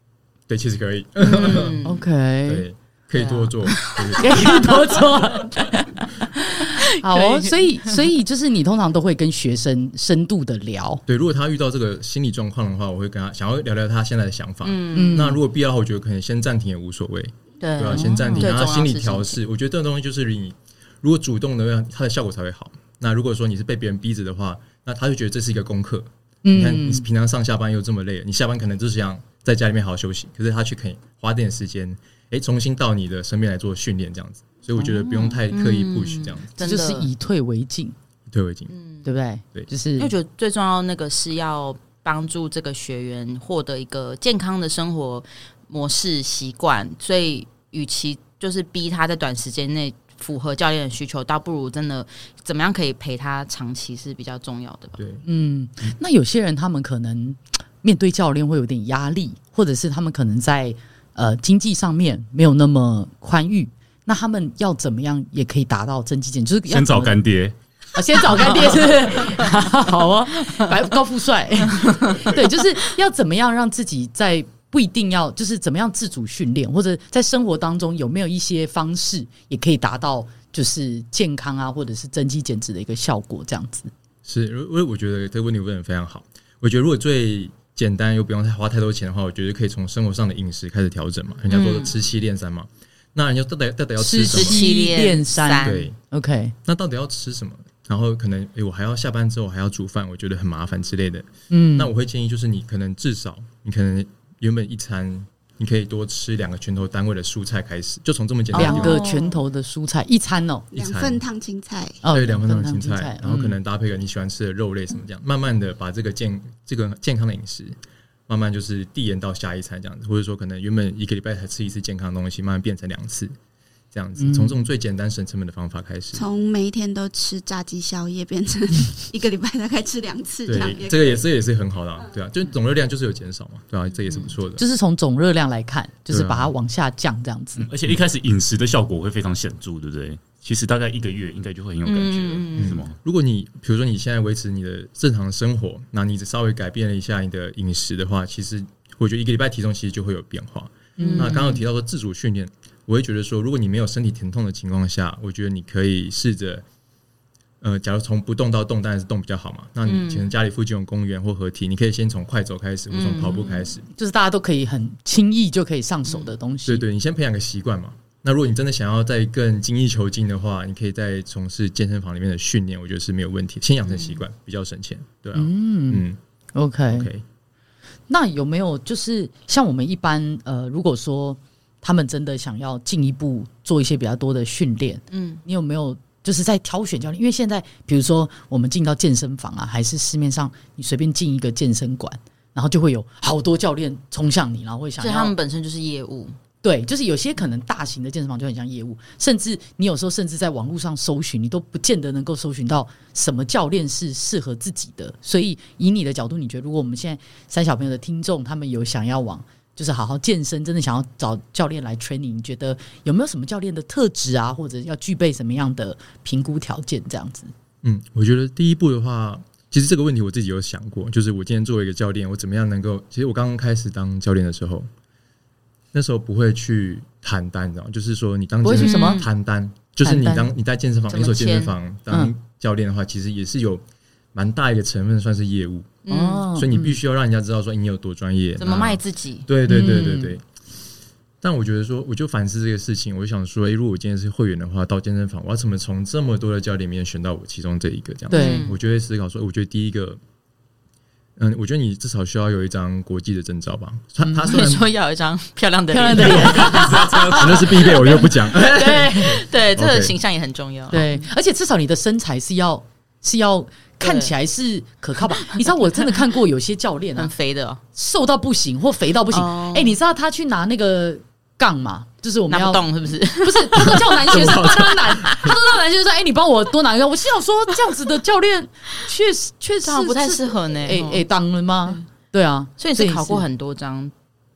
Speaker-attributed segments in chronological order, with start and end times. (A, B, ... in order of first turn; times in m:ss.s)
0:00.5-0:01.8 A
0:01.2-0:02.0 B
0:01.8-0:02.6 C
0:02.5-0:04.9 A
0:03.1-0:05.0 B
0:04.2-0:11.0 C
0:06.8-0:08.0 B
0:11.1-0:36.5 A
0:14.6-0:15.3 B
0:14.9-0:15.4 C
0:17.6-0:19.4 B
0:17.9-0:18.5 C
0:26.4-0:27.0 C
0:34.9-0:37.1 B
0:36.6-0:37.9 C
0:38.3-0:38.7 A
0:38.7-0:39.1 B
0:39.0-0:40.1 C
0:40.0-0:55.0 B
0:55.0-0:55.2 A
0:55.2-1:07.2 C
1:06.7-1:07.5 D
1:07.9-1:23.9 C
1:11.8-1:12.3 B
1:24.2-1:34.6 A
1:31.5-1:31.9 B
1:34.0-1:36.5 C
1:34.3-1:35.8 B
1:35.6-1:36.0 A
1:36.6-1:49.0 A
1:41.5-1:41.9 C
1:48.5-1:49.4 B
1:48.5-1:50.7 C
1:50.7-1:51.2 A
1:50.7-1:52.0 E
1:52.0-1:53.6 C
1:52.1-1:57.8 A
1:58.3-2:03.3 A
2:03.9-2:06.3 A
2:04.2-2:04.6 C
2:06.1-2:11.2 E
2:10.4-2:14.6 A
2:14.6-2:17.7 C
2:16.1-2:16.5 A
2:17.6-2:22.9 D
2:21.8-2:22.8 B
2:22.6-2:36.6 A
2:31.0-2:31.6 C
2:31.0-2:31.5 B
2:37.6-2:43.8 A
2:39.8-2:40.3 B
2:42.9-2:43.7 B
2:43.9-2:46.8 C
2:46.6-2:56.2 A
2:53.9-2:54.2 B
2:55.3-2:57.1 C
2:56.9-2:57.2 A
2:58.1-3:15.3 C
3:05.1-3:05.4 B
3:15.0-3:16.3 B
3:16.6-3:37.5 C
3:37.8-3:44.9 A
3:45.9-3:56.0 A
3:48.6-3:49.2 C
3:48.7-3:49.2 B
3:50.0-3:50.5 C
3:51.1-3:51.7 B
3:56.0-3:56.4 B
3:56.1-3:57.0 C
3:56.5-4:00.4 A
3:58.6-3:59.5 B
3:59.7-4:00.4 C
4:01.4-4:10.2 A
4:08.3-4:08.6 C
4:08.3-4:08.8 B
4:11.4-4:14.9 A
4:14.2-4:14.6 C
4:14.5-4:21.1 B
4:15.9-4:19.4 C
4:16.2-4:17.6 D
4:17.4-4:20.2 A
4:20.9-4:27.3 C
4:24.0-4:24.3 B
4:25.4-4:26.2 B
4:27.2-4:27.8 B
4:27.9-4:32.8 C
4:29.3-4:30.0 B
4:32.5-4:35.5 B
4:33.4-4:43.4 C
4:34.3-4:34.9 A
4:39.8-4:41.2 B
4:42.8-4:44.1 B